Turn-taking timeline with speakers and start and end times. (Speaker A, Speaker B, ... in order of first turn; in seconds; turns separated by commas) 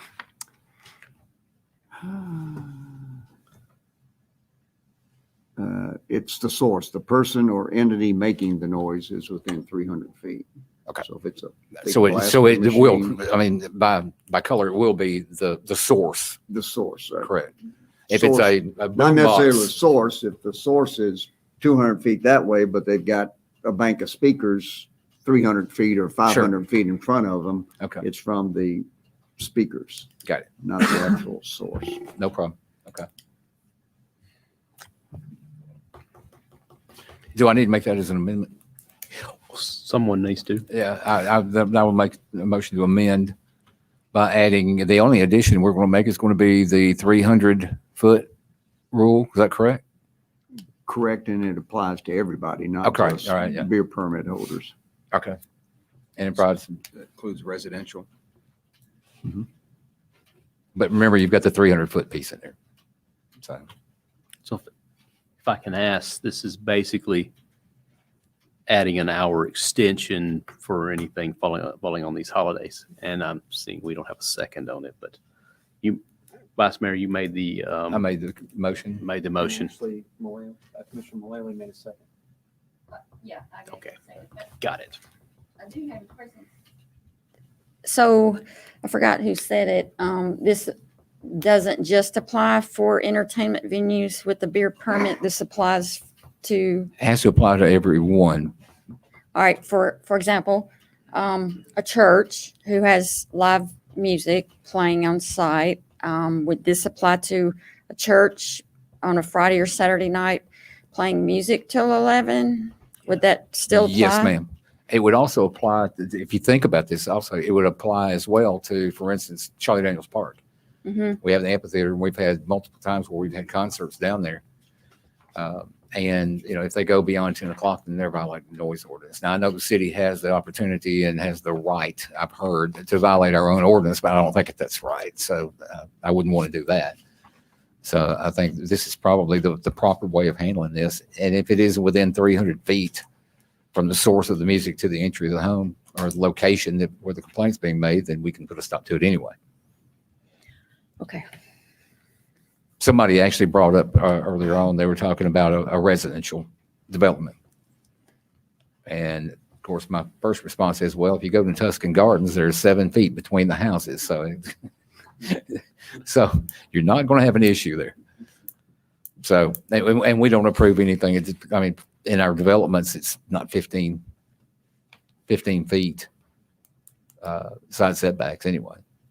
Speaker A: 2.0-3.0, Speaker A: 5.6-10.5, Speaker A: 11.0-13.2, Speaker B: 11.8-16.4, Speaker A: 16.5-17.3, Speaker B: 17.2-17.5, Speaker B: 18.1-19.7, Speaker A: 18.1-28.9, Speaker A: 29.4-32.1, Speaker B: 32.2-33.1, Speaker B: 37.3-38.5, Speaker C: 39.5-40.7, Speaker B: 40.7-43.3, Speaker B: 44.1-48.3, Speaker B: 48.9-49.8, Speaker A: 50.9-54.7, Speaker B: 52.8-53.7, Speaker B: 56.2-56.8, Speaker D: 57.0-58.0, Speaker B: 60.8-62.5, Speaker B: 63.4-63.7, Speaker C: 65.4-67.3, Speaker C: 68.7-75.2, Speaker C: 76.6-78.0, Speaker B: 77.9-79.0, Speaker C: 79.0-79.8, Speaker D: 79.7-82.0, Speaker C: 83.6-85.0, Speaker E: 85.6-86.5, Speaker E: 87.8-96.9, Speaker B: 97.0-98.5, Speaker E: 99.3-114.3, Speaker B: 113.7-120.4, Speaker E: 120.8-121.2, Speaker B: 121.2-124.4, Speaker B: 125.4-137.0, Speaker B: 137.8-143.0, Speaker B: 143.7-149.3, Speaker B: 152.8-157.3, Speaker B: 158.9-164.6, Speaker B: 165.2-167.9, Speaker B: 169.2-174.0, Speaker B: 175.3-176.1, Speaker B: 177.2-178.8